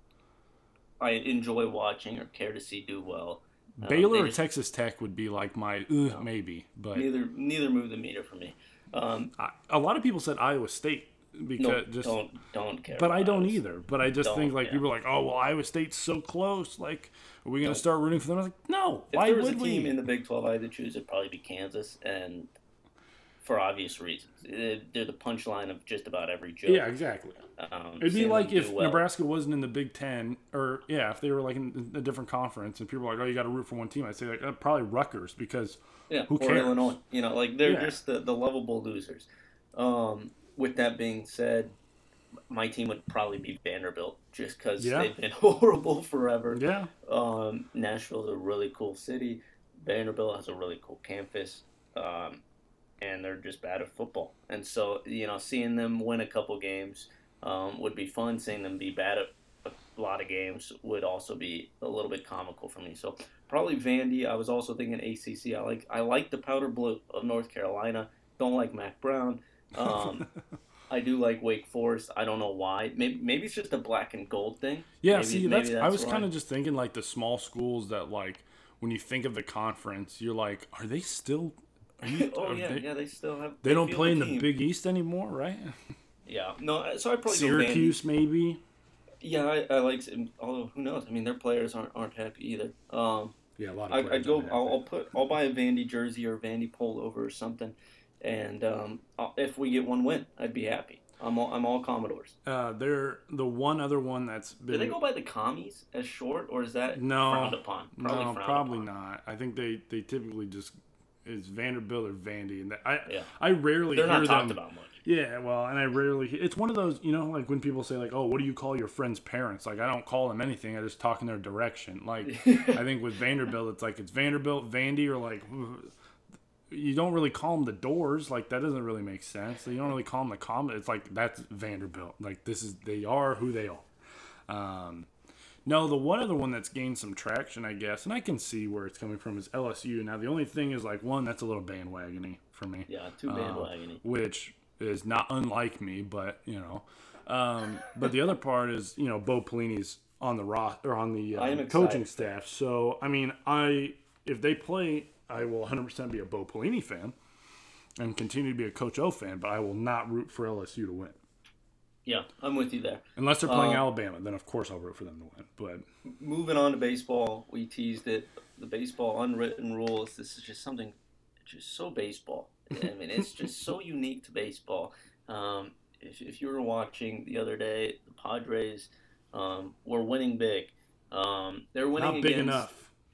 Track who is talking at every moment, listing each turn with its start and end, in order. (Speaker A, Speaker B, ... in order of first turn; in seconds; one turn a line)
Speaker A: 1.0-4.4
Speaker B: 3.8-7.1
Speaker A: 6.9-9.3
Speaker B: 9.4-12.2
Speaker A: 11.6-13.6
Speaker B: 12.9-19.9
Speaker A: 14.2-14.8
Speaker A: 19.1-22.5
Speaker A: 23.4-26.9
Speaker B: 26.7-27.4
Speaker A: 27.6-29.0
Speaker B: 28.0-37.0
Speaker A: 36.1-41.8
Speaker B: 37.6-38.0
Speaker A: 42.5-52.4
Speaker B: 44.8-45.1
Speaker B: 46.5-46.9
Speaker A: 53.0-70.3
Speaker B: 69.9-70.2
Speaker A: 70.9-76.3
Speaker B: 75.0-82.8
Speaker A: 82.1-84.5
Speaker B: 83.6-85.8
Speaker A: 86.3-88.0
Speaker B: 87.2-88.6
Speaker A: 89.2-93.4
Speaker B: 93.6-94.8
Speaker A: 93.9-102.4
Speaker B: 102.5-105.0
Speaker A: 104.7-108.9
Speaker B: 107.0-125.9
Speaker A: 113.9-115.0
Speaker A: 122.2-122.8
Speaker B: 126.7-133.9
Speaker B: 134.5-135.1
Speaker B: 135.7-157.1
Speaker A: 142.9-144.0
Speaker A: 151.3-152.3
Speaker B: 158.0-161.2
Speaker A: 162.1-163.8
Speaker B: 163.2-165.8
Speaker A: 166.1-182.7
Speaker B: 181.9-182.9